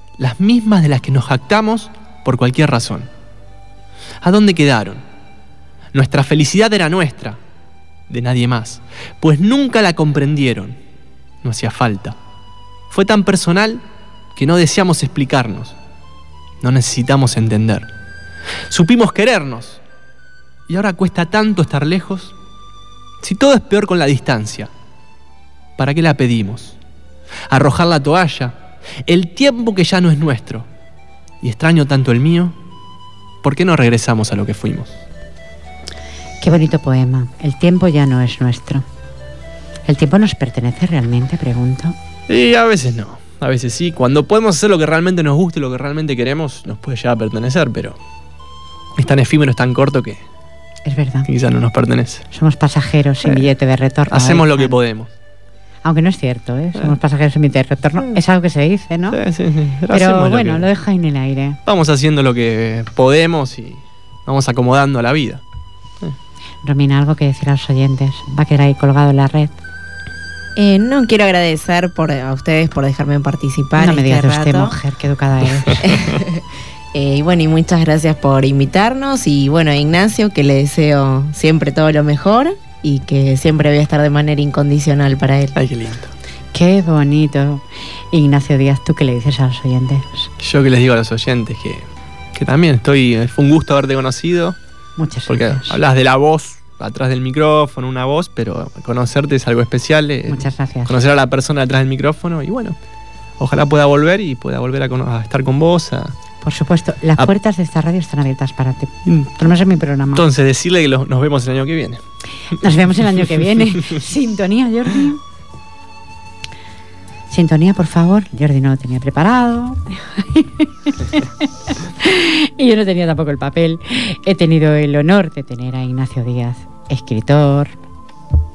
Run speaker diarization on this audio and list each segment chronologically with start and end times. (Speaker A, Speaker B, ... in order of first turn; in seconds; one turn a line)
Speaker A: 0.2-3.1
Speaker A: 4.2-5.0
Speaker A: 5.9-7.4
Speaker A: 8.1-10.8
Speaker A: 11.4-12.2
Speaker A: 12.9-13.8
Speaker A: 14.3-15.8
Speaker A: 16.6-17.9
Speaker A: 18.7-19.8
Speaker A: 20.7-22.4
Speaker A: 23.2-24.7
Speaker A: 25.8-26.8
Speaker A: 27.5-30.7
Speaker A: 31.4-32.6
Speaker A: 33.4-35.0
Speaker B: 36.4-38.9
Speaker B: 39.9-42.0
Speaker A: 42.3-48.0
Speaker A: 49.0-50.2
Speaker B: 50.9-51.3
Speaker A: 51.3-52.3
Speaker B: 52.3-54.8
Speaker A: 53.2-53.5
Speaker A: 54.1-55.1
Speaker B: 55.8-59.2
Speaker A: 59.1-60.7
Speaker B: 59.9-61.6
Speaker A: 61.7-65.4
Speaker B: 66.6-69.6
Speaker C: 70.6-74.8
Speaker B: 73.8-76.0
Speaker A: 75.6-76.2
Speaker C: 75.8-85.6
Speaker A: 85.5-86.1
Speaker B: 86.5-90.3
Speaker A: 90.4-94.6
Speaker B: 95.0-95.8
Speaker A: 95.3-102.8
Speaker B: 100.3-101.0
Speaker A: 103.4-106.1
Speaker B: 106.4-110.2
Speaker A: 110.2-112.0
Speaker B: 112.5-115.2
Speaker B: 117.3-127.7